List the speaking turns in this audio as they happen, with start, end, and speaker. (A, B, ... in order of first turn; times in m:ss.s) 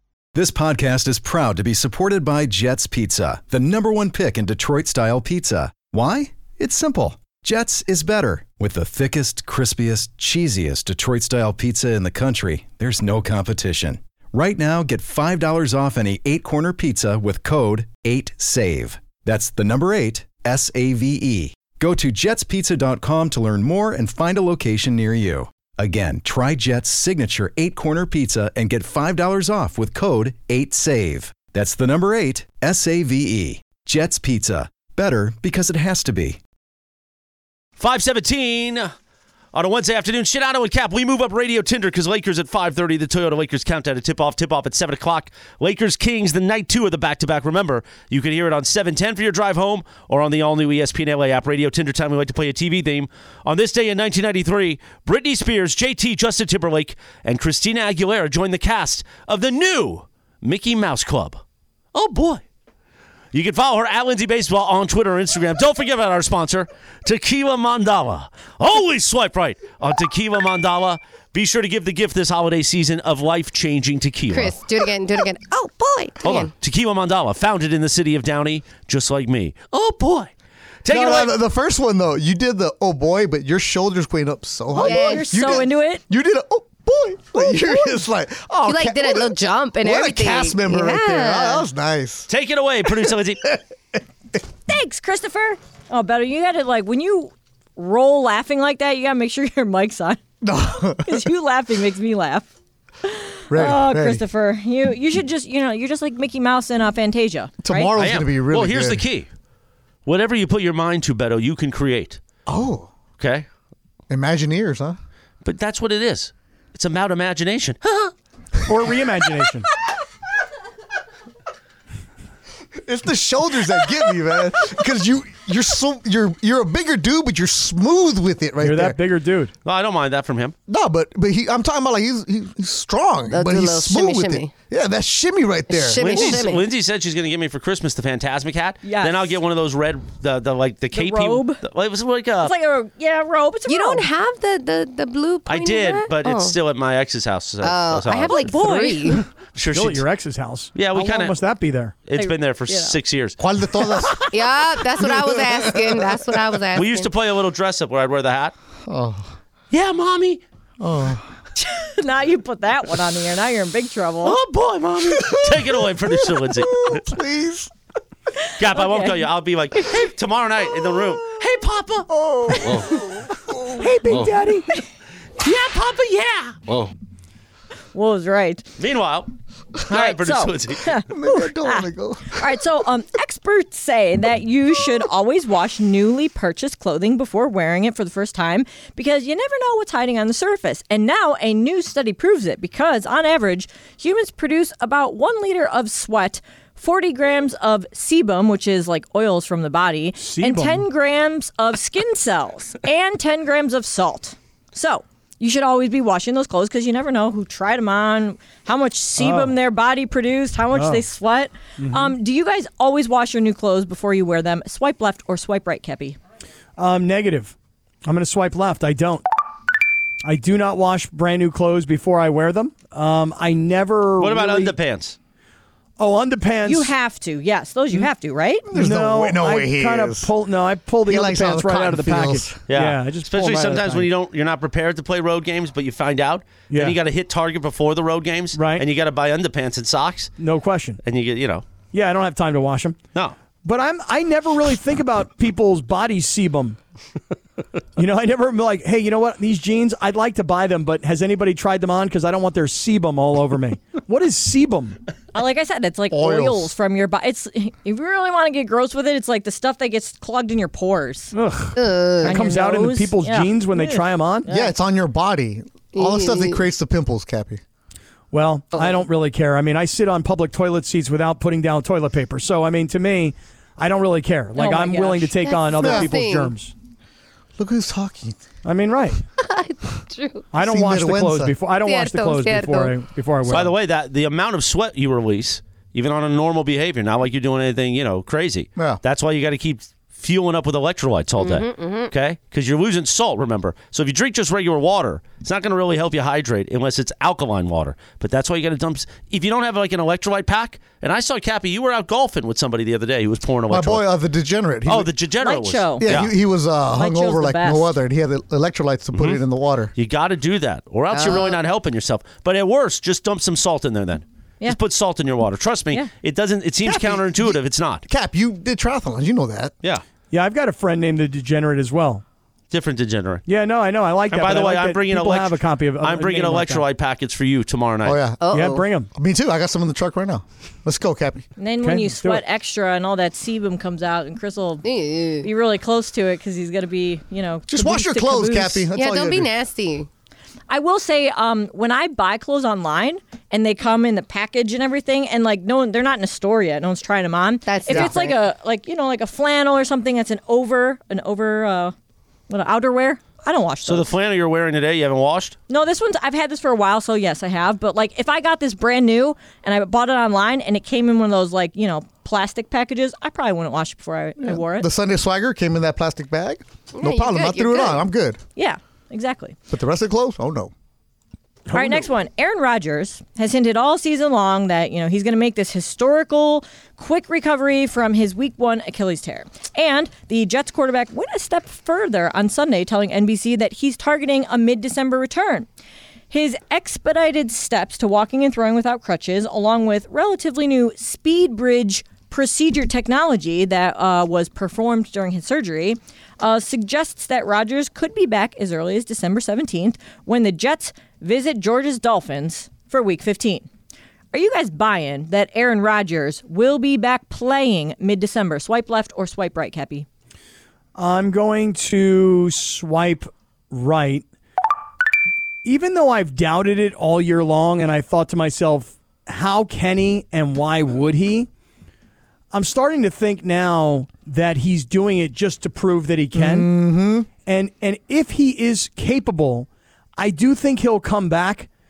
0:00.3-0:36.4 A
0:37.8-0:38.9 B
0:39.5-1:01.4 B
1:01.9-1:02.4 B
1:03.3-1:14.6 B
1:14.3-1:16.5 C
1:16.2-1:20.3 B
1:20.8-1:21.4 B
1:20.9-1:32.3 D
1:24.8-1:26.0 E
1:24.8-1:25.6 C
1:28.6-1:31.7 C
1:32.3-1:33.5 B
1:32.9-1:33.5 D
1:34.7-1:40.2 E
1:40.4-1:41.3 D
1:41.0-1:42.5 E
1:43.0-1:47.9 E
1:43.5-1:44.2 D
1:47.6-1:49.0 D
1:48.0-1:49.3 B
1:50.1-1:52.2 B
1:52.5-1:52.9 D
1:53.2-1:53.5 B
1:54.1-1:55.0 D
1:55.4-1:58.1 B
1:58.7-1:59.7 F
2:02.8-2:09.0 D
2:08.6-2:09.5 F
2:09.6-2:10.5 B
2:10.7-2:16.4 D
2:13.3-2:14.5 C
2:15.7-2:16.6 C
2:16.0-2:22.5 B
2:18.8-2:19.4 E
2:20.9-2:21.6 E
2:22.4-2:24.0 E
2:23.7-2:26.5 C
2:25.5-2:28.5 B
2:27.6-2:29.2 C
2:28.4-2:29.2 E
2:29.5-2:30.0 B
2:29.7-2:32.0 F
2:30.8-2:31.4 B
2:32.1-2:33.4 B
2:32.1-2:33.0 E
2:33.4-2:34.3 D
2:34.3-2:37.1 C
2:34.9-2:36.6 D
2:36.8-2:38.5 B
2:38.9-2:39.3 D
2:39.7-2:40.4 B
2:40.8-2:41.2 D
2:41.6-2:44.4 E
2:44.2-2:47.1 B
2:45.2-2:45.7 D
2:46.3-2:47.7 D
2:48.6-2:52.9 B
2:48.7-2:49.1 E
2:52.1-2:53.9 D
2:53.8-2:54.7 F
2:55.4-2:56.9 B
2:57.9-2:58.6 E
2:58.8-3:01.0 B
2:59.9-3:36.2 E
3:01.1-3:02.6 D
3:20.2-3:20.9 F
3:29.2-3:29.6 F
3:30.7-3:31.0 F
3:31.8-3:32.1 F
3:36.8-3:39.2 F
3:40.2-3:44.8 F
3:44.2-3:45.2 B
3:46.0-3:46.9 F
3:46.6-3:48.7 E
3:48.7-3:50.3 D
3:48.7-3:54.1 F
3:51.1-3:52.6 D
3:52.7-4:00.3 B
3:56.7-3:57.0 F
3:58.5-3:58.8 F
4:00.4-4:01.0 F
4:01.0-4:01.6 B
4:01.9-4:03.0 F
4:03.6-4:06.8 F
4:08.0-4:15.0 F
4:15.3-4:21.3 E
4:16.1-4:16.7 D
4:21.3-4:24.5 F
4:21.8-4:22.4 C
4:22.2-4:24.7 E
4:24.5-4:27.6 D
4:26.0-4:26.6 C
4:28.3-4:36.7 F
4:34.6-4:35.3 E
4:35.4-4:36.5 C
4:35.8-4:36.1 D
4:37.6-4:38.4 D
4:38.6-4:39.2 F
4:39.4-4:40.5 C
4:40.5-4:43.8 F
4:40.6-4:41.6 D
4:41.8-4:43.0 C
4:43.5-5:04.0 B
4:51.4-4:52.1 C
5:03.7-5:05.1 D
5:04.8-5:06.3 B
5:05.4-5:06.1 E
5:06.0-5:09.9 D
5:07.0-5:07.9 E
5:09.1-5:09.4 B
5:10.0-5:18.0 B
5:11.1-5:11.6 C
5:16.8-5:19.7 D
5:20.3-5:22.2 F
5:22.7-5:23.5 B
5:23.5-5:26.8 F
5:24.3-5:28.2 B
5:28.0-5:31.5 D
5:28.4-5:28.8 C
5:28.5-5:29.1 F
5:31.6-5:34.8 E
5:31.8-5:32.4 F
5:34.8-5:35.5 C
5:35.4-5:38.8 E
5:37.7-5:39.5 D
5:38.9-5:40.1 C
5:40.7-5:51.9 E
5:47.7-5:48.4 C
5:52.5-5:54.1 E
5:53.8-5:55.6 B
5:55.7-6:04.9 E
6:04.4-6:08.4 D
6:07.0-6:08.0 C
6:08.6-6:09.6 E
6:09.7-6:10.7 D
6:11.7-6:12.1 F
6:11.7-6:25.7 E
6:26.3-6:43.7 E
6:44.3-6:50.0 E
6:51.0-6:54.2 F
6:55.6-7:01.5 F
7:02.5-7:06.7 F
7:06.3-7:07.3 D
7:07.4-7:11.7 F